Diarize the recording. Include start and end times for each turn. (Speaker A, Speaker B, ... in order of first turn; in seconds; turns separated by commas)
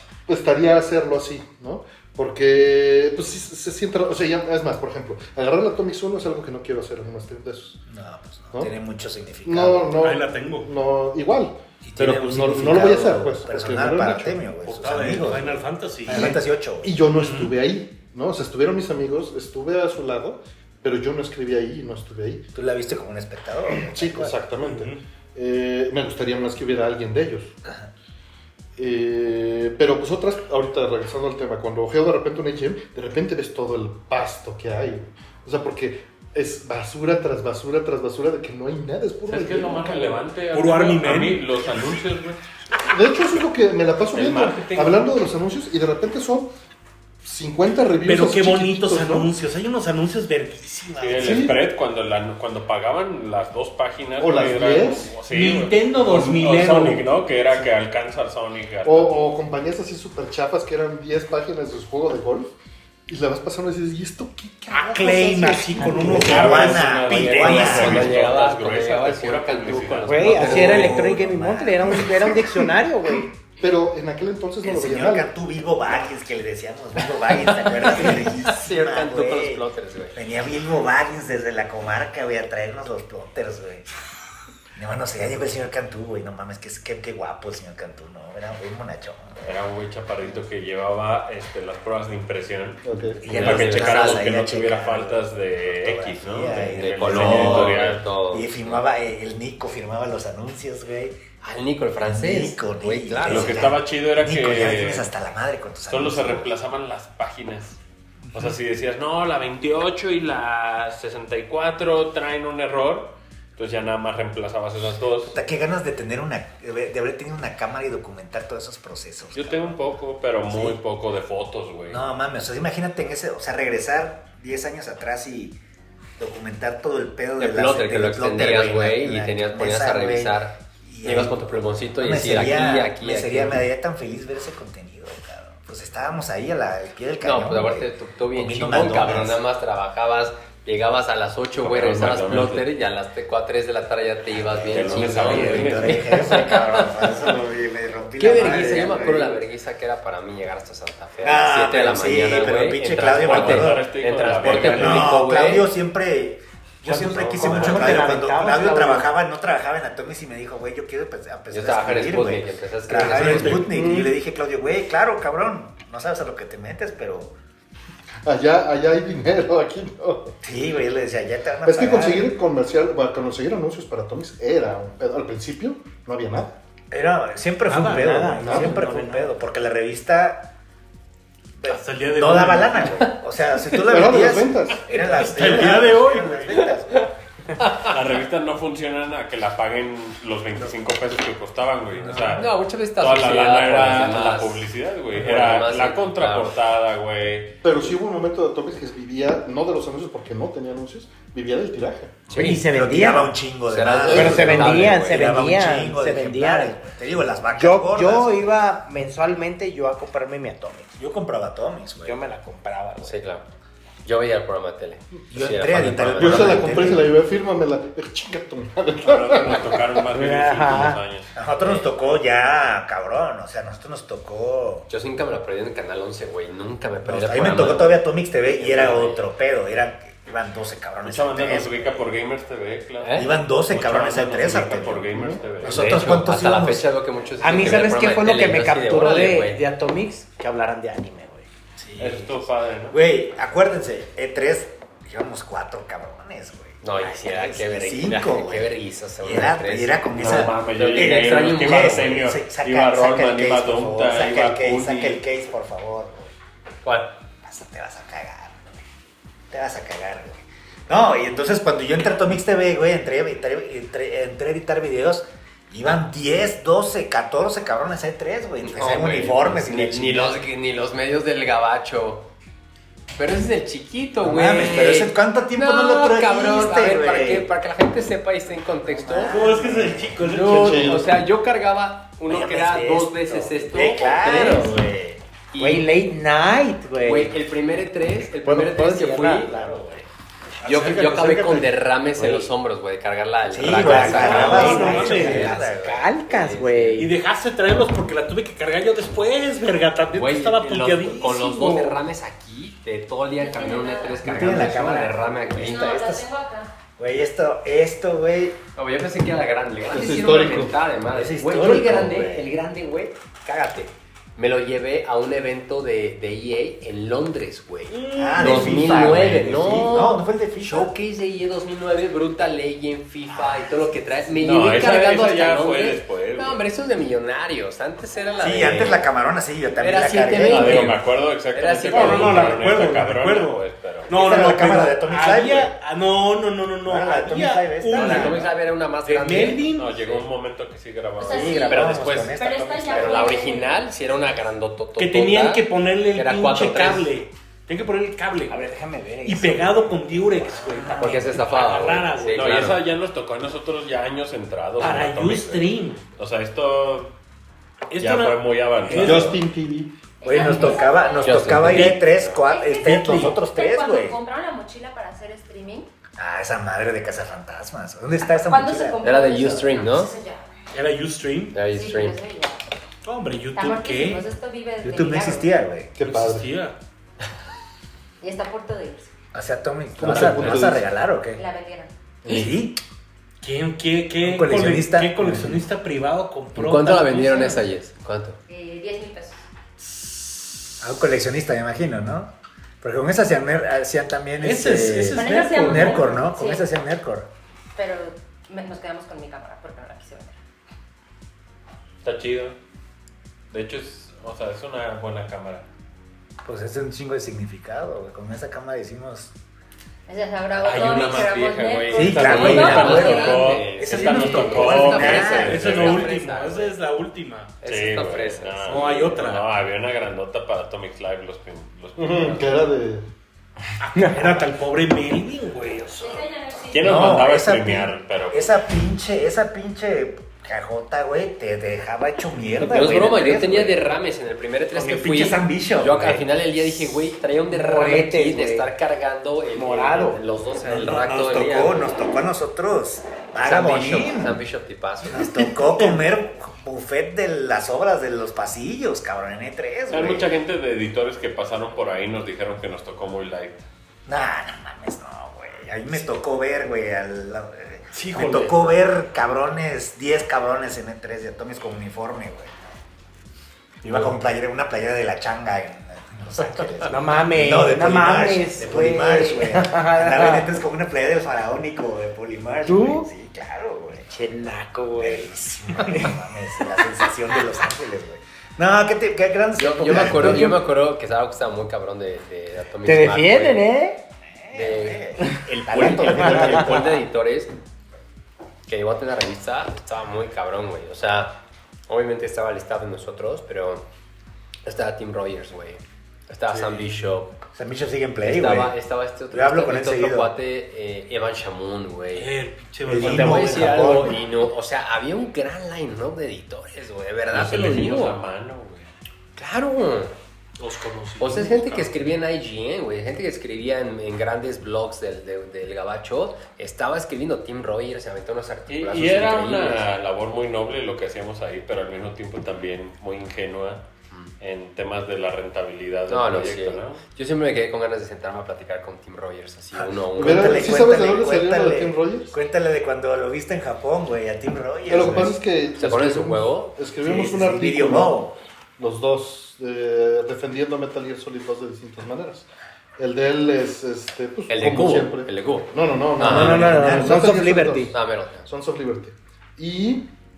Speaker A: 0.3-7.8, Speaker B: 7.9-9.9, Speaker A: 9.4-14.4, Speaker C: 10.0-10.7, Speaker B: 11.8-16.9, Speaker C: 14.6-16.4, Speaker A: 16.1-22.5, Speaker C: 17.1-17.5, Speaker B: 22.5-24.4, Speaker A: 23.7-27.5, Speaker C: 24.6-25.0, Speaker B: 27.6-27.9, Speaker A: 28.8-40.2, Speaker D: 39.3-42.4, Speaker C: 40.5-41.5, Speaker A: 42.9-46.5, Speaker D: 44.1-45.0, Speaker A: 47.2-49.3, Speaker C: 48.0-51.5, Speaker D: 51.0-59.2, Speaker A: 51.2-51.6, Speaker A: 54.2-55.1, Speaker C: 55.2-57.1, Speaker A: 58.8-62.5, Speaker A: 63.1-66.5, Speaker C: 64.7-68.1, Speaker B: 65.0-68.2, Speaker D: 66.0-70.8, Speaker E: 67.2-71.1, Speaker F: 70.0-73.3, Speaker B: 70.4-72.3, Speaker A: 73.6-75.3, Speaker B: 74.6-83.8, Speaker E: 77.8-80.2, Speaker B: 84.8-89.5, Speaker D: 89.4-98.0, Speaker A: 92.8-93.5, Speaker B: 93.2-101.3, Speaker E: 93.3-94.2, Speaker E: 96.7-98.8, Speaker E: 101.4-103.7, Speaker B: 102.0-106.5, Speaker D: 103.2-105.1, Speaker D: 105.9-107.8, Speaker D: 108.3-115.4, Speaker B: 115.2-119.8, Speaker D: 119.3-122.0, Speaker B: 120.5-120.8, Speaker B: 121.9-125.6, Speaker B: 126.2-139.4, Speaker E: 127.4-133.6, Speaker E: 137.2-147.2, Speaker D: 141.6-142.7, Speaker B: 144.3-149.4, Speaker D: 144.7-146.4, Speaker E: 148.2-155.7, Speaker B: 151.2-153.9, Speaker D: 153.2-155.2, Speaker B: 154.4-167.3, Speaker F: 156.8-159.1, Speaker C: 157.4-157.6, Speaker E: 161.5-163.7, Speaker A: 163.5-164.1, Speaker A: 168.2-170.3, Speaker B: 170.4-172.3, Speaker A: 171.6-176.5, Speaker B: 176.9-180.5, Speaker C: 177.7-179.0, Speaker F: 178.0-179.3, Speaker A: 178.2-178.8, Speaker B: 181.6-187.1, Speaker C: 181.6-183.1, Speaker A: 183.8-184.8, Speaker C: 185.1-186.7, Speaker E: 187.6-187.9, Speaker D: 187.8-197.5, Speaker E: 192.3-196.6, Speaker A: 197.6-202.3, Speaker E: 202.3-202.6, Speaker F: 202.3-203.3, Speaker B: 202.6-208.4, Speaker E: 203.7-205.4, Speaker F: 204.1-206.8, Speaker F: 207.5-210.9, Speaker B: 211.0-212.2, Speaker F: 212.0-213.2, Speaker E: 213.0-213.4, Speaker E: 214.0-216.9, Speaker B: 215.3-217.1, Speaker A: 216.2-219.8, Speaker D: 219.0-221.3, Speaker F: 220.1-221.0, Speaker B: 221.3-224.9, Speaker E: 221.6-221.9, Speaker E: 224.9-229.2, Speaker B: 227.0-232.0, Speaker D: 231.0-236.0, Speaker E: 233.0-233.3, Speaker B: 233.2-235.1, Speaker A: 235.1-235.4, Speaker B: 235.6-236.9, Speaker E: 235.6-239.6, Speaker F: 237.4-241.5, Speaker B: 241.8-242.4, Speaker D: 242.0-243.0, Speaker B: 242.9-256.3, Speaker E: 246.8-252.2, Speaker D: 250.1-255.2, Speaker E: 256.8-257.1, Speaker B: 257.4-258.7, Speaker B: 259.5-270.4, Speaker E: 268.6-272.2, Speaker E: 273.1-279.4, Speaker B: 274.2-277.5, Speaker B: 279.0-280.1, Speaker C: 279.2-281.1, Speaker E: 280.2-284.9, Speaker A: 280.5-281.2, Speaker B: 282.2-285.2, Speaker E: 285.5-285.9, Speaker F: 285.6-287.4, Speaker E: 287.0-289.6, Speaker F: 288.4-289.8, Speaker B: 289.5-290.0, Speaker C: 290.6-291.7, Speaker E: 290.6-297.1, Speaker B: 293.5-296.0, Speaker C: 293.9-295.6, Speaker F: 293.9-297.1, Speaker C: 297.0-302.0, Speaker E: 300.1-306.0, Speaker G: 303.4-304.7, Speaker B: 304.2-306.3, Speaker G: 305.5-306.7, Speaker B: 307.0-308.6, Speaker E: 308.8-329.1, Speaker A: 309.9-310.8, Speaker B: 311.1-312.5, Speaker C: 317.9-319.3, Speaker B: 318.1-320.9, Speaker B: 323.3-323.9, Speaker D: 324.4-326.6, Speaker B: 328.4-331.0, Speaker E: 329.8-332.8, Speaker D: 330.4-334.1, Speaker C: 331.9-340.0, Speaker B: 334.1-335.7, Speaker B: 336.9-338.4, Speaker E: 337.9-339.7, Speaker D: 339.7-341.7, Speaker G: 341.2-344.0, Speaker B: 341.3-343.4, Speaker E: 341.6-347.1, Speaker C: 344.9-348.7, Speaker B: 348.5-351.4, Speaker C: 349.2-352.8, Speaker E: 350.9-352.8, Speaker D: 352.3-357.1, Speaker C: 354.8-356.0, Speaker C: 357.9-359.4, Speaker D: 357.9-359.4, Speaker A: 358.9-359.9, Speaker G: 360.2-365.9, Speaker B: 360.2-364.2, Speaker E: 361.2-362.3, Speaker C: 361.7-362.0, Speaker C: 362.8-363.4, Speaker B: 366.2-369.3, Speaker G: 368.2-370.5, Speaker E: 369.0-370.1, Speaker C: 370.7-371.6, Speaker E: 371.5-372.2, Speaker G: 371.6-372.6, Speaker C: 373.0-374.2, Speaker G: 373.5-375.5, Speaker B: 374.8-375.9, Speaker A: 375.9-376.5, Speaker C: 376.0-376.8, Speaker G: 378.2-379.1, Speaker B: 379.3-381.4, Speaker A: 380.0-380.9, Speaker E: 380.1-380.6, Speaker G: 381.4-381.9, Speaker A: 382.2-382.5, Speaker B: 382.3-382.8, Speaker C: 383.4-387.6, Speaker B: 384.2-385.6, Speaker E: 386.5-388.4, Speaker G: 388.5-389.4, Speaker B: 390.8-397.3, Speaker C: 394.4-396.2, Speaker G: 395.1-396.7, Speaker G: 397.7-400.4, Speaker D: 402.0-402.6, Speaker D: 403.5-405.6, Speaker B: 406.4-409.3, Speaker G: 410.1-413.6, Speaker D: 410.6-416.1, Speaker C: 410.7-411.2, Speaker E: 410.7-416.7, Speaker B: 411.9-416.1, Speaker C: 415.4-417.6, Speaker E: 417.6-419.1, Speaker D: 417.6-422.6, Speaker C: 418.6-419.5, Speaker A: 422.0-423.1, Speaker C: 423.8-426.3, Speaker G: 426.0-427.1, Speaker D: 426.7-428.5, Speaker B: 426.8-433.9, Speaker E: 432.6-441.9, Speaker C: 434.8-435.1, Speaker B: 434.9-436.3, Speaker F: 437.5-438.7, Speaker F: 439.5-440.2, Speaker B: 440.6-444.4, Speaker E: 443.4-445.4, Speaker B: 445.0-450.3, Speaker C: 445.6-446.0, Speaker D: 449.9-453.6, Speaker B: 454.1-462.7, Speaker C: 457.9-458.8, Speaker B: 463.8-474.1, Speaker F: 466.8-470.5, Speaker F: 472.6-473.1, Speaker F: 474.1-476.1, Speaker B: 475.0-480.6, Speaker E: 479.6-483.7, Speaker F: 480.0-480.6, Speaker F: 482.8-484.0, Speaker B: 484.3-487.0, Speaker E: 484.5-485.1, Speaker F: 485.2-486.7, Speaker E: 485.7-487.5, Speaker E: 488.7-491.4, Speaker E: 491.9-493.8, Speaker E: 494.6-497.4, Speaker C: 496.5-496.9, Speaker B: 497.5-500.3, Speaker E: 498.2-502.3, Speaker C: 502.1-504.2, Speaker B: 502.9-504.1, Speaker E: 502.9-508.2, Speaker F: 503.1-504.0, Speaker D: 507.3-508.9, Speaker E: 509.4-510.1, Speaker C: 510.6-511.9, Speaker E: 511.2-519.9, Speaker D: 518.7-523.9, Speaker D: 524.4-527.0, Speaker E: 526.1-530.7, Speaker B: 529.7-535.3, Speaker A: 530.1-532.3, Speaker A: 534.9-538.2, Speaker E: 535.8-536.8, Speaker B: 537.0-538.4, Speaker A: 538.8-550.1, Speaker E: 544.5-546.7, Speaker B: 546.2-547.4, Speaker F: 546.2-547.9, Speaker E: 547.9-548.5